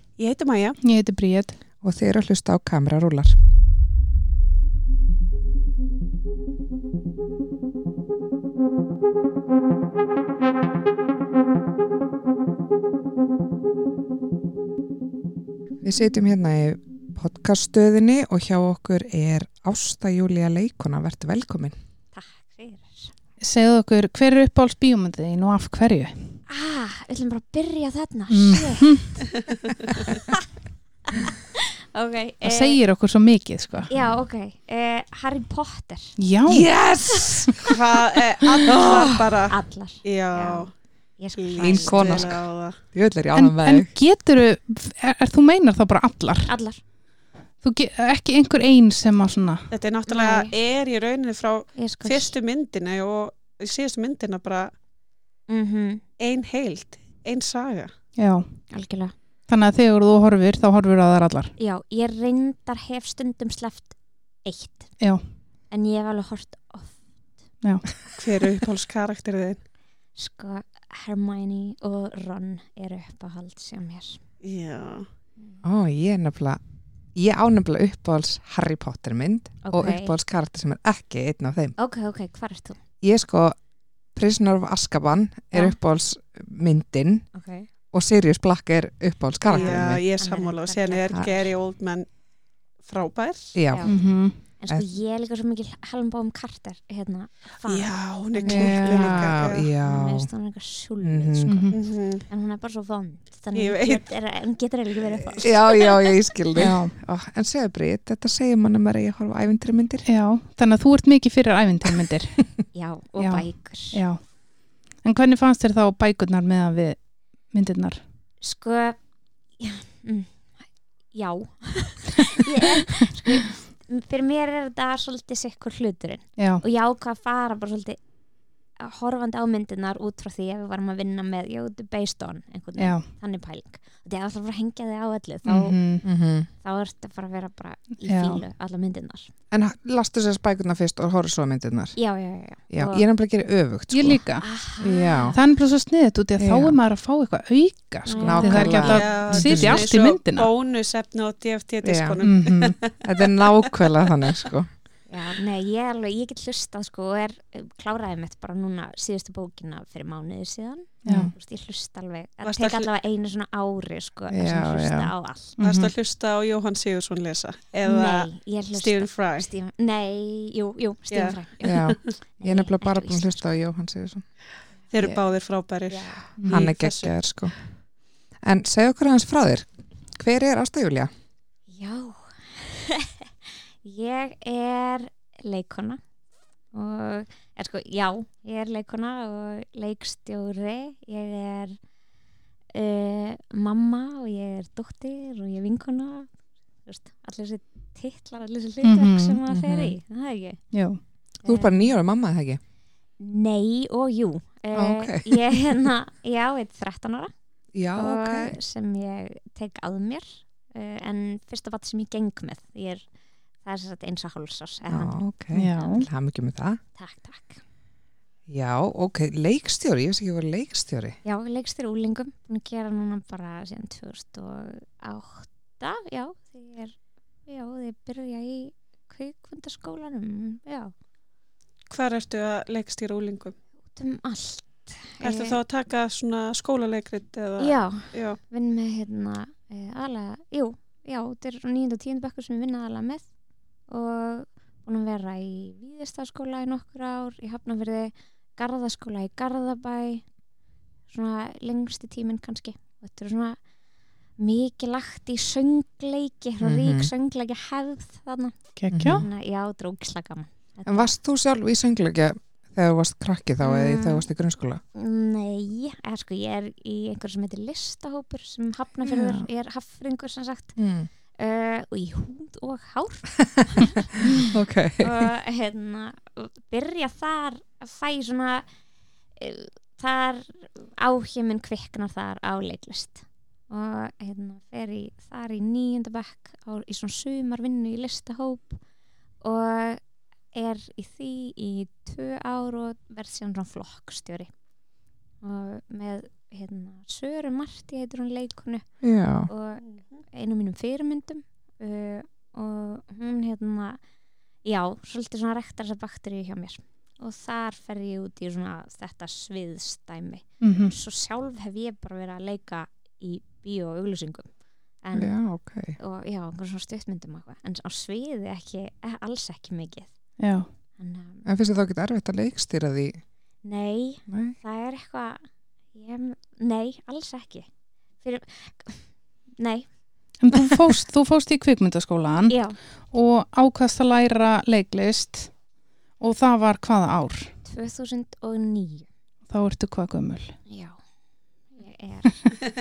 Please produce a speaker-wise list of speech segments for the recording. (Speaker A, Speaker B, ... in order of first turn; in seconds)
Speaker A: 0.2-0.8, 37.7-40.7, 41.3-42.8, 49.7-54.7, 56.2-57.9, 68.1-69.6, 74.4-75.0, 89.4-92.1, 92.8-93.5, 97.6-99.7, 101.7-102.3, 103.5-104.2, 105.0-105.5, 148.7-153.5, 162.4-162.9, 165.6-169.5, 171.1-171.9, 174.9-177.2, 231.9-233.6, 235.2-238.4, 299.8-300.2
Speaker B: 0.8-1.6, 23.4-26.4, 28.3-29.2, 32.4-33.9, 36.2-36.7, 43.3-46.5, 47.6-49.7, 58.1-58.6, 59.5-61.5, 65.0-65.2, 67.6-67.9, 93.8-94.4, 101.4-101.8, 106.6-107.0, 110.0-112.5, 113.2-114.3, 114.9-118.0, 126.4-126.6, 132.8-133.1, 135.4-136.0, 138.0-138.4, 143.9-144.5, 145.3-150.5, 152.2-152.8, 161.1-161.3, 165.6-165.9, 176.4-176.6, 198.8-199.4, 200.7-201.0, 215.5-216.1, 258.8-259.2, 310.6-310.9, 320.4-320.7, 330.4-335.6, 336.2-337.5, 339.5-340.6
Speaker C: 1.8-3.4, 15.8-21.8, 36.5-37.7, 38.6-39.2, 41.6-43.9, 75.6-76.6, 77.1-81.8, 83.0-83.6, 84.1-87.3, 87.9-90.0, 93.5-94.9, 98.4-100.3, 101.0-101.7, 105.4-110.0, 136.0-136.5, 139.5-142.0, 142.7-144.2, 144.8-145.4, 146.4-146.8, 148.1-149.9, 151.8-152.3, 153.0-154.7, 161.0-161.3, 164.3-165.1, 171.6-174.3, 176.5-177.6, 178.4-181.1, 199.5-199.9, 201.4-202.6, 204.7-205.5, 207.7-208.6, 214.9-216.8, 218.5-221.2, 256.6-257.1, 258.9-259.3, 260.9-264.8, 269.0-269.4, 270.8-271.1, 274.5-275.2, 299.0-299.5, 315.1-315.9, 321.4-323.2, 324.3-324.6
Speaker D: 22.1-23.1, 26.5-29.2, 31.6-32.8, 33.9-36.2, 39.5-42.4, 46.5-46.8, 50.0-50.5, 51.8-52.3, 55.5-56.0, 58.7-59.1, 61.6-65.0, 65.7-67.0, 70.2-74.2, 79.6-80.1, 81.8-82.8, 85.5-85.8, 87.3-87.7, 89.5-91.4, 93.7-106.2, 112.7-114.0, 118.4-119.0, 119.6-120.4, 121.1-128.0, 128.8-135.8, 136.6-139.3, 141.9-143.0, 144.4-145.4, 148.1-149.0, 155.1-165.6, 167.8-173.4, 175.9-176.2, 181.7-186.0, 186.7-191.8, 192.7-196.3, 196.8-200.7, 201.4-201.9, 203.2-207.3, 207.9-213.0, 213.6-216.0, 217.0-217.6, 221.2-230.9, 233.9-235.6, 237.6-243.3, 243.9-250.2, 251.1-253.6, 254.4-261.1, 263.6-264.2, 264.9-270.8, 271.3-274.3, 275.0-278.7, 279.4-288.8, 289.4-290.0, 290.5-294.5, 295.4-304.0, 304.6-314.5, 315.0-320.1, 321.0-321.4, 323.6-327.7, 328.2-330.0, 332.5-332.8, 337.6-339.1, 340.7-341.0, 341.7-342.5